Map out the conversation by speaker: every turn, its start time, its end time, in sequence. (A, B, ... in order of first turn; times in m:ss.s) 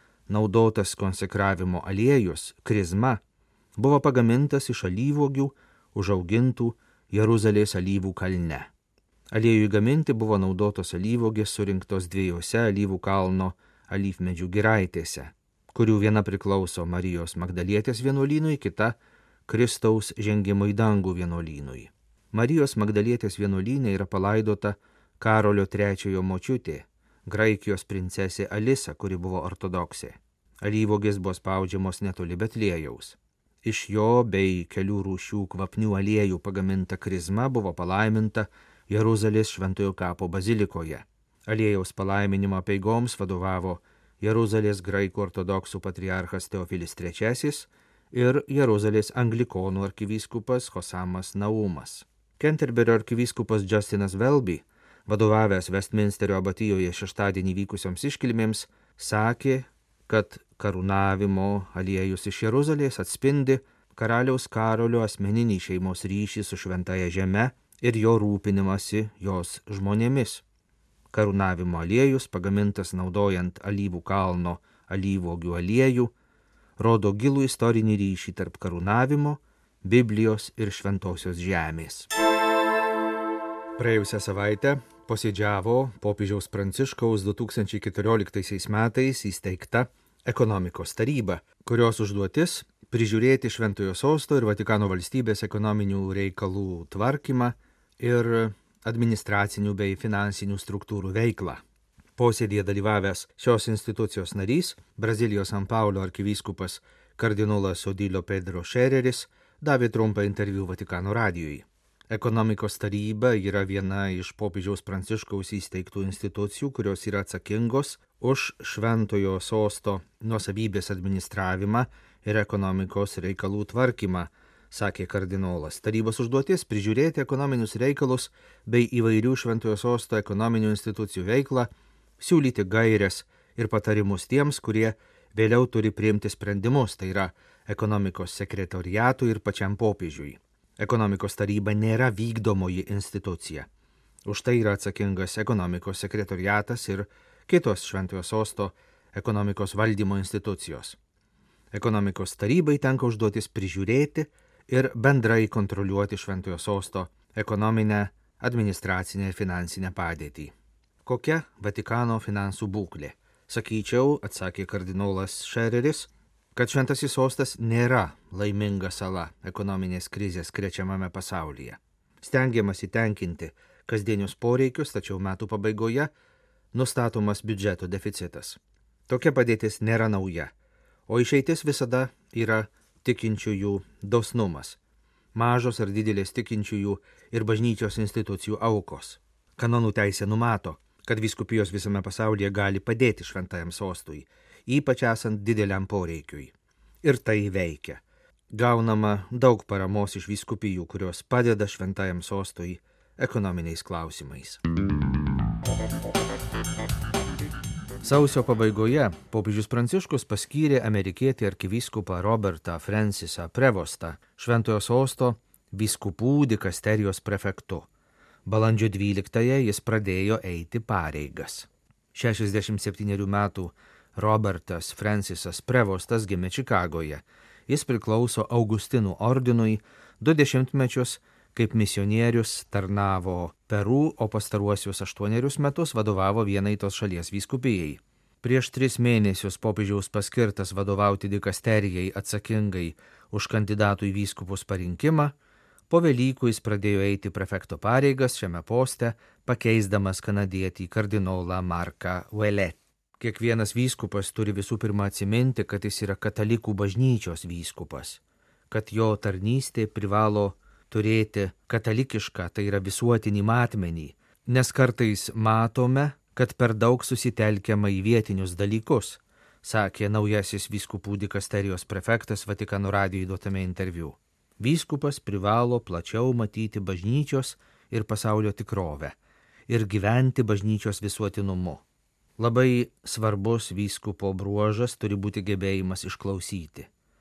0:00.3-0:03.2 A
0:03.8-0:08.7 A
0:09.3-1:10.4 A
1:11.1-1:16.1 A
1:16.8-1:22.1 A
1:23.8-1:41.6 A
1:42.2-2:11.7 A
2:12.2-2:23.7 A
2:24.2-2:31.0 A
2:31.7-2:40.5 A
2:41.0-2:56.1 A
2:56.7-3:00.5 A
3:01.1-3:04.8 A
3:05.3-3:24.6 A
3:28.0-3:37.9 A
3:38.4-4:05.3 A
4:05.9-4:39.2 A
4:39.7-4:41.8 A
4:42.4-4:46.9 A